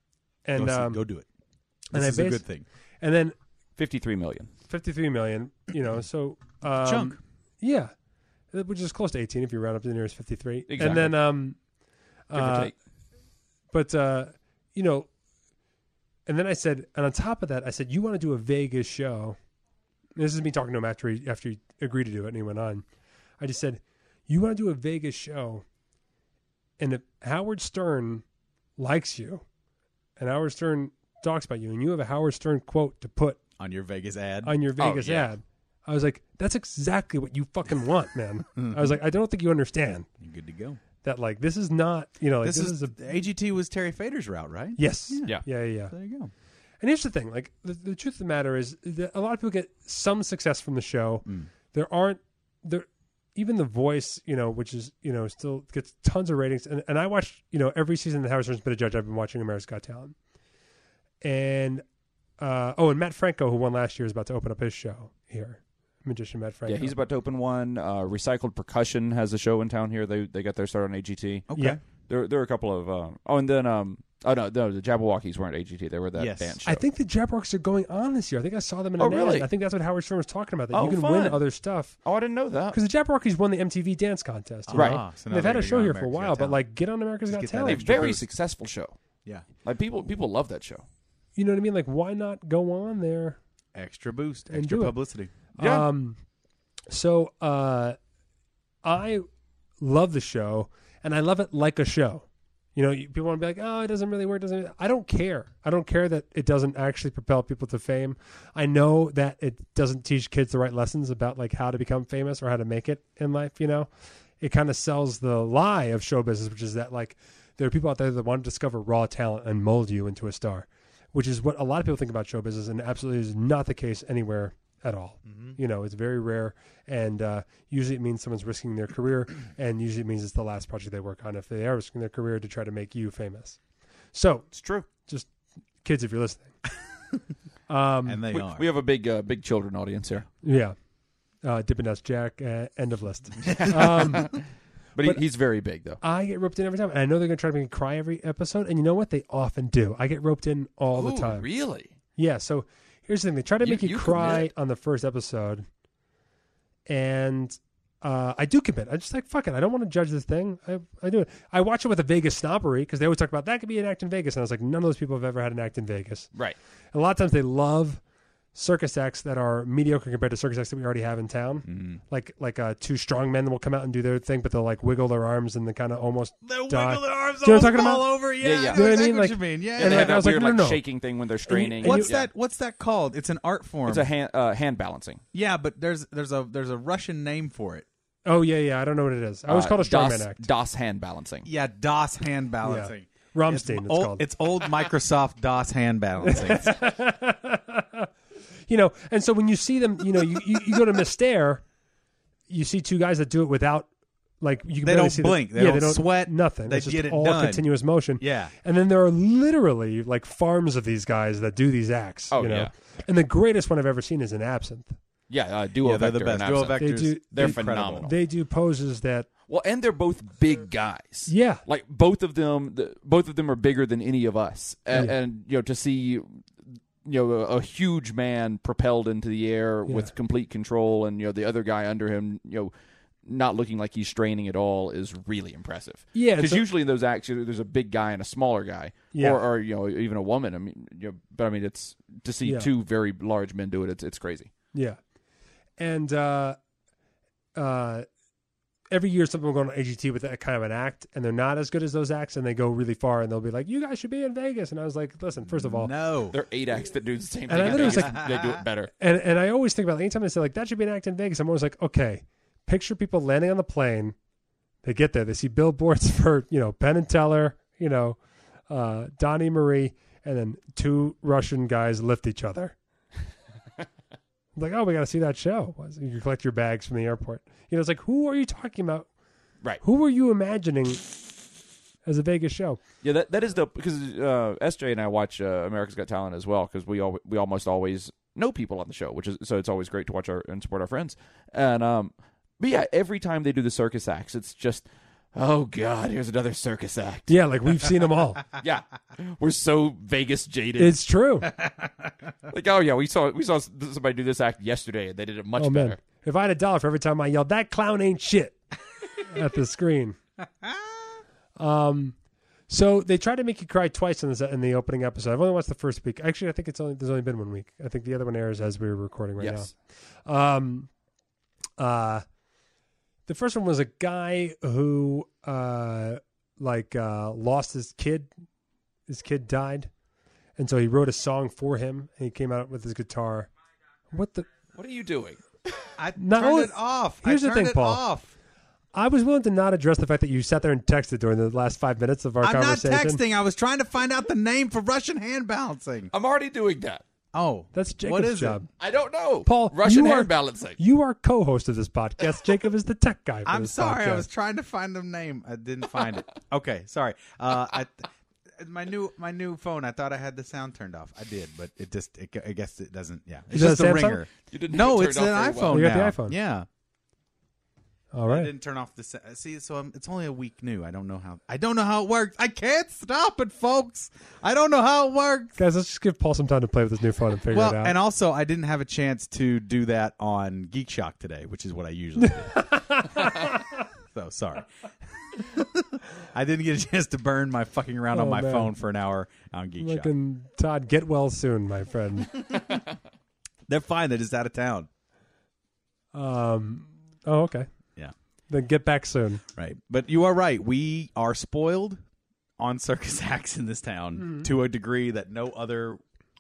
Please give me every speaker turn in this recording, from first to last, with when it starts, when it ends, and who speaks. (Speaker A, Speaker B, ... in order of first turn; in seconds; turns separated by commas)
Speaker A: 0.5-1.0, Speaker B: 0.6-1.3, Speaker A: 1.9-2.5, Speaker B: 1.9-2.6, Speaker A: 3.0-3.4, Speaker C: 3.8-4.5, Speaker A: 4.7-7.9, Speaker B: 6.8-7.2, Speaker A: 8.5-11.6, Speaker C: 10.7-11.2, Speaker A: 12.3-12.7, Speaker C: 12.3-12.7, Speaker A: 13.7-15.1, Speaker A: 16.3-19.4, Speaker A: 20.2-22.9, Speaker A: 23.4-25.6, Speaker A: 26.8-28.2, Speaker A: 28.8-29.4, Speaker A: 30.2-33.4, Speaker B: 33.6-34.5, Speaker A: 34.4-40.1, Speaker C: 34.8-35.3, Speaker B: 38.5-39.0, Speaker B: 40.2-40.8, Speaker A: 41.0-43.0, Speaker B: 42.4-46.3, Speaker A: 44.8-45.9, Speaker A: 46.8-60.1, Speaker A: 61.2-61.8, Speaker A: 62.4-67.0, Speaker C: 66.7-71.5, Speaker B: 71.5-71.8, Speaker C: 72.1-76.7, Speaker B: 76.2-76.8, Speaker A: 76.7-82.0, Speaker C: 79.0-79.5, Speaker C: 80.7-81.4, Speaker C: 82.0-82.8, Speaker A: 82.7-87.8, Speaker B: 84.7-86.6, Speaker B: 87.3-88.2, Speaker C: 87.7-89.0, Speaker C: 89.6-90.8, Speaker A: 91.4-93.4, Speaker B: 93.8-95.3, Speaker A: 94.5-94.9, Speaker A: 95.6-96.2, Speaker C: 95.6-95.8, Speaker A: 96.9-98.0, Speaker A: 98.8-99.3, Speaker A: 99.8-113.9, Speaker A: 114.4-133.6, Speaker B: 125.3-125.6, Speaker A: 134.1-135.3, Speaker C: 134.5-134.9, Speaker A: 135.8-136.6, Speaker A: 137.7-138.2, Speaker B: 138.1-138.7, Speaker C: 138.3-140.3, Speaker A: 140.4-140.8, Speaker A: 141.4-144.3, Speaker C: 143.4-144.4, Speaker C: 145.0-146.0, Speaker A: 146.0-151.5, Speaker C: 150.9-151.9, Speaker A: 152.2-155.7, Speaker C: 153.6-154.5, Speaker A: 156.9-166.3, Speaker A: 166.9-168.0, Speaker A: 168.5-178.1, Speaker B: 171.7-172.0, Speaker B: 176.4-180.3, Speaker C: 178.4-178.9, Speaker A: 178.7-180.8, Speaker C: 179.8-182.3, Speaker A: 181.5-182.1, Speaker B: 181.8-184.1, Speaker C: 183.9-185.2, Speaker B: 185.3-187.9, Speaker A: 188.3-190.4, Speaker C: 189.5-191.5, Speaker B: 191.4-196.8, Speaker A: 192.6-194.2, Speaker A: 196.2-198.1, Speaker A: 198.7-201.6, Speaker A: 202.5-203.9, Speaker A: 204.4-215.0, Speaker B: 204.8-207.7, Speaker B: 208.2-208.5, Speaker C: 212.3-212.7, Speaker C: 215.3-218.1, Speaker B: 215.8-218.1, Speaker A: 216.8-219.3, Speaker C: 219.5-226.5, Speaker A: 221.3-221.6, Speaker C: 227.0-232.7, Speaker C: 233.3-244.5, Speaker A: 236.1-236.6, Speaker A: 239.1-239.4, Speaker A: 242.4-242.7, Speaker A: 244.7-245.0, Speaker A: 245.8-246.6, Speaker A: 247.6-248.1, Speaker A: 248.9-255.9, Speaker B: 255.5-256.4, Speaker C: 256.3-258.9, Speaker A: 257.5-258.2, Speaker B: 257.6-258.6, Speaker A: 259.0-264.2, Speaker A: 264.8-272.8, Speaker A: 274.6-279.1, Speaker A: 279.8-281.0, Speaker A: 282.1-282.8, Speaker C: 283.0-297.3, Speaker A: 297.3-298.4, Speaker C: 298.6-301.0, Speaker A: 300.8-301.5, Speaker B: 301.6-302.1, Speaker C: 302.5-306.0, Speaker A: 305.6-308.6, Speaker A: 309.2-310.2, Speaker A: 311.6-312.2, Speaker A: 312.7-319.7, Speaker C: 319.4-319.7, Speaker A: 320.3-320.9, Speaker A: 321.8-322.2, Speaker A: 323.3-328.3, Speaker A: 329.1-329.9, Speaker A: 330.6-333.5, Speaker A: 334.1-334.5, Speaker C: 334.8-335.4, Speaker B: 336.0-338.3, Speaker A: 336.2-338.0, Speaker A: 338.9-343.2, Speaker B: 342.4-346.1, Speaker C: 346.1-347.0, Speaker B: 347.3-348.6, Speaker A: 347.7-348.7, Speaker C: 348.8-350.8, Speaker A: 349.4-354.3, Speaker B: 353.5-366.7, Speaker A: 363.5-364.2, Speaker C: 364.4-365.9, Speaker A: 365.7-366.4, Speaker A: 368.1-368.5, Speaker B: 368.3-375.6, Speaker A: 375.6-377.9, Speaker B: 377.5-382.6, Speaker A: 382.2-383.6, Speaker B: 384.1-384.7, Speaker B: 385.3-390.1, Speaker A: 388.1-388.7, Speaker A: 389.8-392.3, Speaker B: 393.7-394.9, Speaker A: 396.1-397.7, Speaker A: 398.5-399.4, Speaker B: 399.6-402.0, Speaker B: 402.6-406.0